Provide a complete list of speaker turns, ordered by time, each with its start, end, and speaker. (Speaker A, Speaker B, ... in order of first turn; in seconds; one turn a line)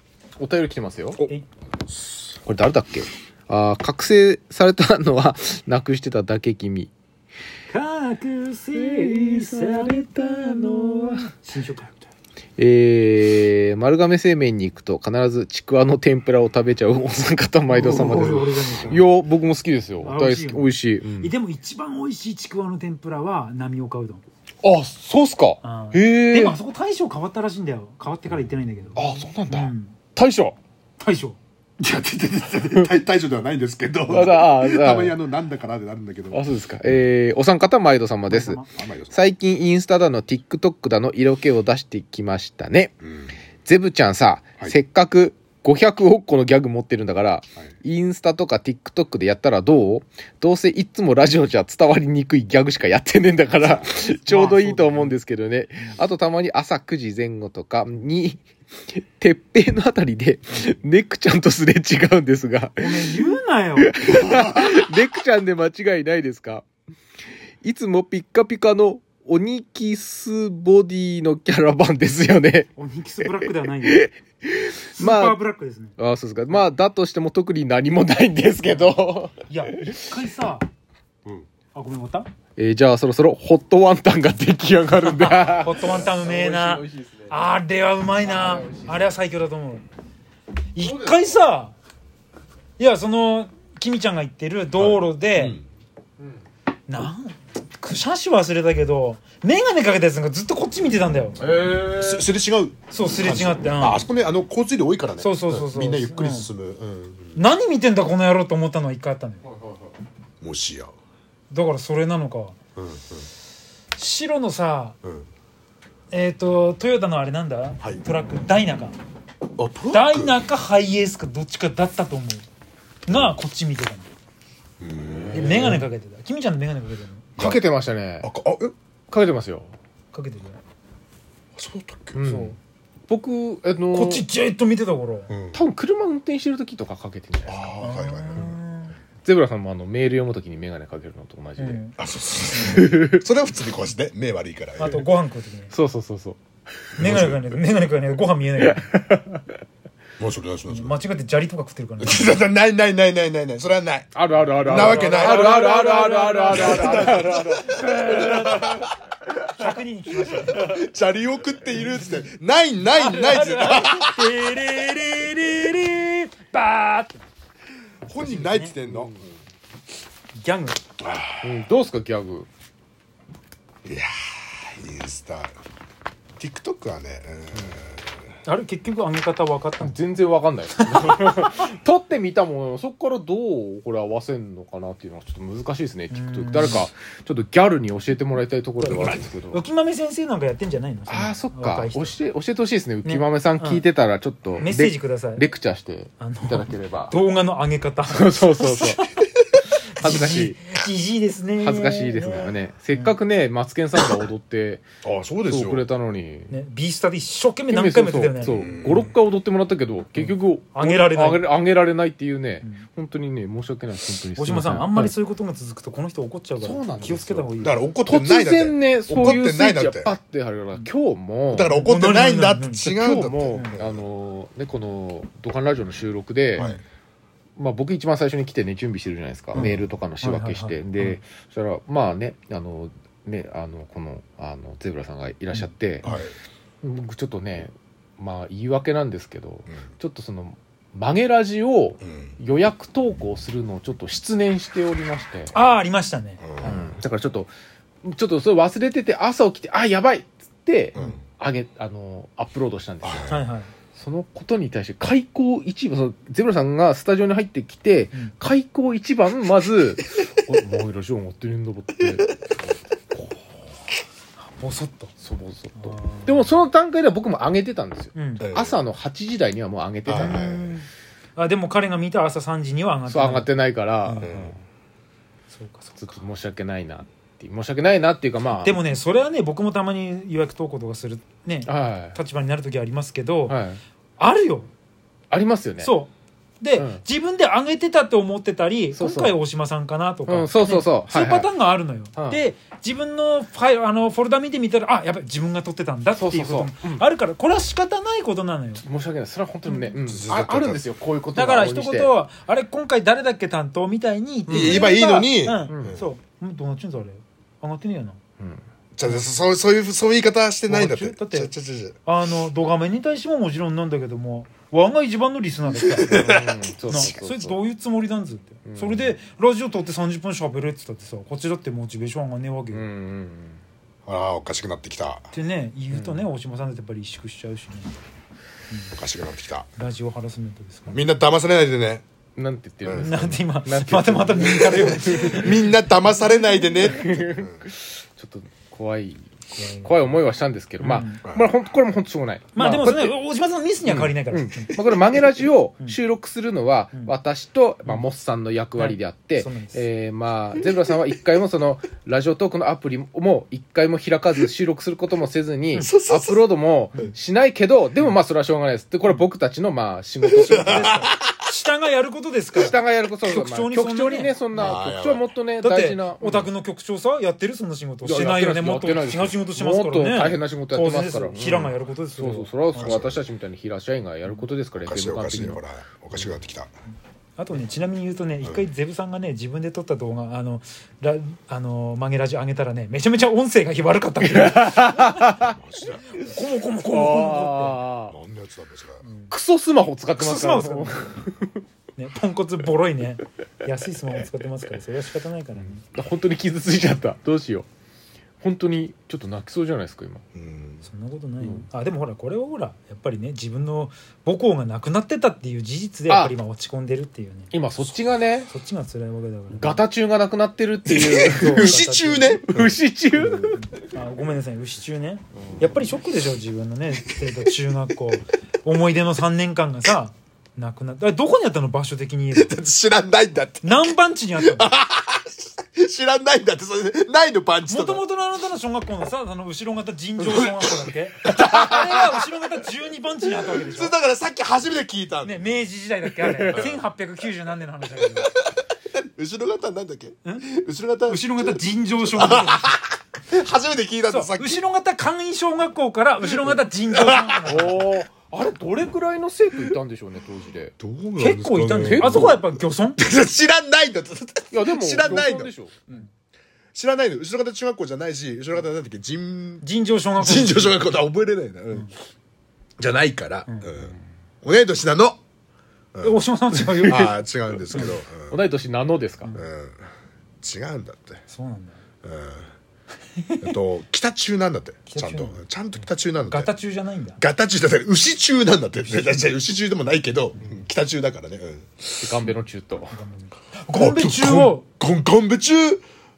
Speaker A: 0.4-1.2
Speaker A: 2.5-6.9
Speaker B: 7.7-12.1
Speaker A: 8.7-11.2
Speaker A: 12.6-21.3
Speaker B: 17.7-19.1
Speaker B: 20.0-24.2
Speaker A: 24.6-26.6
Speaker B: 25.6-30.0
Speaker A: 28.9-30.6
Speaker B: 31.0-31.4
Speaker C: 31.8-36.4
Speaker A: 34.1-35.2
Speaker A: 36.3-42.9
Speaker B: 38.3-38.7
Speaker C: 38.8-39.1
Speaker C: 43.0-43.3
Speaker A: 43.6-63.2
Speaker B: 54.2-55.1
Speaker B: 62.8-64.0
Speaker A: 63.8-66.6
Speaker A: 67.6-72.7
Speaker B: 72.8-74.1
Speaker A: 73.2-75.4
Speaker B: 75.0-76.0
Speaker A: 76.0-80.2
Speaker B: 78.6-78.9
Speaker B: 79.5-80.6
Speaker B: 81.7-82.3
Speaker A: 82.6-87.4
Speaker B: 85.0-89.8
Speaker A: 88.2-89.2
Speaker B: 90.7-91.7
Speaker A: 90.8-91.2
Speaker B: 92.8-95.6
Speaker C: 94.8-95.6
Speaker B: 96.9-101.4
Speaker A: 101.4-102.3
Speaker C: 101.9-107.4
Speaker B: 102.9-104.0
Speaker B: 105.2-106.5
Speaker B: 107.3-109.4
Speaker C: 110.4-110.9
Speaker B: 111.5-112.5
Speaker C: 112.8-113.2
Speaker B: 114.0-115.0
Speaker B: 116.1-119.0
Speaker C: 119.6-120.4
Speaker B: 119.9-122.5
Speaker B: 123.0-124.1
Speaker C: 123.1-123.4
Speaker C: 124.8-125.8
Speaker A: 125.0-125.8
Speaker B: 125.3-127.2
Speaker A: 127.4-128.3
Speaker C: 128.2-128.7
Speaker A: 129.1-129.7
Speaker B: 130.1-130.6
Speaker C: 131.6-132.3
Speaker A: 132.1-132.6
Speaker B: 132.2-132.6
Speaker A: 133.1-134.2
Speaker B: 133.9-135.3
Speaker C: 135.3-135.6
Speaker A: 135.5-137.7
Speaker C: 137.5-138.6
Speaker B: 137.8-138.9
Speaker A: 139.2-141.8
Speaker B: 141.6-141.9
Speaker C: 142.0-145.0
Speaker A: 142.6-143.2
Speaker B: 144.8-145.7
Speaker A: 145.7-146.4
Speaker C: 147.0-147.4
Speaker B: 147.0-148.8
Speaker A: 148.6-149.4
Speaker C: 150.2-150.9
Speaker B: 150.7-152.4
Speaker C: 152.0-155.7
Speaker A: 154.1-158.6
Speaker B: 154.6-158.7
Speaker C: 156.5-158.9
Speaker B: 159.5-160.7
Speaker C: 160.5-164.4
Speaker B: 161.8-162.2
Speaker B: 162.9-167.2
Speaker C: 168.1-169.4
Speaker B: 168.2-168.8
Speaker B: 170.4-170.8
Speaker C: 171.0-171.5
Speaker A: 171.4-172.5
Speaker C: 173.8-175.5
Speaker C: 176.4-178.1
Speaker B: 178.4-180.0
Speaker A: 179.8-189.6
Speaker B: 180.7-181.6
Speaker B: 186.1-186.8
Speaker B: 188.8-192.2
Speaker A: 191.1-197.1
Speaker B: 193.0-193.8
Speaker B: 194.6-195.4
Speaker B: 196.2-199.2
Speaker A: 198.1-199.1
Speaker A: 199.9-200.7
Speaker B: 200.0-203.1
Speaker A: 201.6-204.8
Speaker C: 205.0-205.8
Speaker A: 205.4-206.5
Speaker B: 206.5-208.5
Speaker A: 207.7-215.1
Speaker C: 208.5-209.1
Speaker B: 210.2-211.5
Speaker B: 214.4-217.8
Speaker A: 216.6-217.5
Speaker C: 217.6-220.1
Speaker A: 218.0-221.7
Speaker C: 221.5-224.0
Speaker B: 221.7-222.9
Speaker A: 222.8-226.7
Speaker A: 227.6-236.1
Speaker B: 229.5-231.2
Speaker B: 235.5-236.2
Speaker C: 236.0-236.3
Speaker A: 236.8-245.5
Speaker C: 242.0-242.3
Speaker B: 245.5-246.9
Speaker C: 246.4-246.7
Speaker A: 246.6-247.5
Speaker A: 248.0-253.3
Speaker C: 253.0-253.4
Speaker B: 253.3-253.7
Speaker A: 253.9-262.4
Speaker A: 263.1-263.4
Speaker B: 264.4-265.1
Speaker A: 265.2-270.5
Speaker B: 265.8-266.6
Speaker B: 268.1-268.4
Speaker C: 268.4-268.8
Speaker C: 270.0-270.8
Speaker B: 270.1-274.5
Speaker A: 273.1-274.5
Speaker C: 274.2-274.5
Speaker B: 275.5-276.2
Speaker A: 276.0-278.8
Speaker B: 278.6-283.6
Speaker A: 281.6-282.2
Speaker A: 283.5-283.8
Speaker B: 284.2-284.7
Speaker A: 285.3-285.9
Speaker B: 285.8-298.8
Speaker A: 286.8-287.0
Speaker A: 288.9-289.4
Speaker A: 290.3-291.5
Speaker A: 292.1-292.4
Speaker A: 296.1-297.0
Speaker A: 298.8-302.1
Speaker B: 299.7-299.9
Speaker C: 300.0-300.8
Speaker B: 301.3-308.2
Speaker A: 304.5-304.9
Speaker C: 304.5-306.0
Speaker A: 305.7-305.9
Speaker C: 308.9-311.9
Speaker B: 310.7-311.5
Speaker B: 312.0-322.9
Speaker C: 315.9-316.5
Speaker A: 316.1-317.6
Speaker A: 318.6-319.1
Speaker A: 322.7-323.6
Speaker C: 324.1-325.3
Speaker B: 325.3-327.9
Speaker A: 325.9-326.2
Speaker C: 328.9-329.7
Speaker B: 329.8-331.0
Speaker C: 330.9-332.0
Speaker A: 332.4-335.6
Speaker C: 332.8-333.1
Speaker B: 333.0-335.6
Speaker C: 334.4-337.6
Speaker B: 336.2-336.8
Speaker A: 336.8-343.1
Speaker B: 339.5-340.0
Speaker B: 340.8-341.2
Speaker C: 341.2-341.5
Speaker B: 342.5-344.8
Speaker A: 343.8-361.0
Speaker B: 348.8-349.8
Speaker C: 355.8-356.4
Speaker C: 360.2-361.1
Speaker B: 360.6-364.7
Speaker A: 362.5-366.5
Speaker C: 364.5-365.3
Speaker B: 365.6-373.0
Speaker A: 368.0-375.6
Speaker C: 372.8-373.2
Speaker C: 374.8-376.7
Speaker B: 377.4-385.3
Speaker A: 384.2-385.6
Speaker C: 385.4-386.1
Speaker B: 386.1-387.8
Speaker A: 386.8-388.1
Speaker C: 388.1-389.0
Speaker B: 389.0-389.3
Speaker A: 389.3-391.6
Speaker B: 390.2-391.2
Speaker B: 391.9-395.8
Speaker A: 395.8-397.7
Speaker A: 398.4-400.2
Speaker C: 400.3-400.8
Speaker B: 400.8-407.5
Speaker A: 406.1-406.3
Speaker A: 407.5-408.5
Speaker B: 408.5-409.8
Speaker A: 409.5-411.8
Speaker C: 410.9-413.6
Speaker B: 411.2-412.4
Speaker A: 412.5-413.6
Speaker B: 413.6-422.5
Speaker C: 422.3-428.0
Speaker B: 423.6-424.7
Speaker B: 427.7-433.9
Speaker C: 430.2-432.2
Speaker C: 433.3-435.6
Speaker B: 435.2-438.3
Speaker A: 436.2-436.8
Speaker C: 438.1-444.6
Speaker B: 440.2-440.5
Speaker B: 441.1-442.7
Speaker B: 444.1-448.0
Speaker A: 447.4-450.7
Speaker C: 450.8-455.5
Speaker B: 451.2-453.0
Speaker A: 451.8-452.4
Speaker A: 454.5-455.8
Speaker C: 456.7-459.6
Speaker B: 459.6-460.8
Speaker C: 460.2-461.9
Speaker C: 462.8-465.2
Speaker B: 466.0-467.1
Speaker A: 466.5-467.1
Speaker C: 466.8-468.4
Speaker A: 467.7-469.3
Speaker C: 469.3-469.8
Speaker C: 470.4-471.2
Speaker B: 471.3-471.8
Speaker C: 472.0-472.5
Speaker B: 473.2-473.5
Speaker C: 473.4-476.5
Speaker B: 474.9-475.4
Speaker B: 476.2-477.2
Speaker C: 477.2-482.1
Speaker B: 478.8-479.2
Speaker A: 482.0-482.9
Speaker B: 482.9-484.6
Speaker C: 483.7-485.8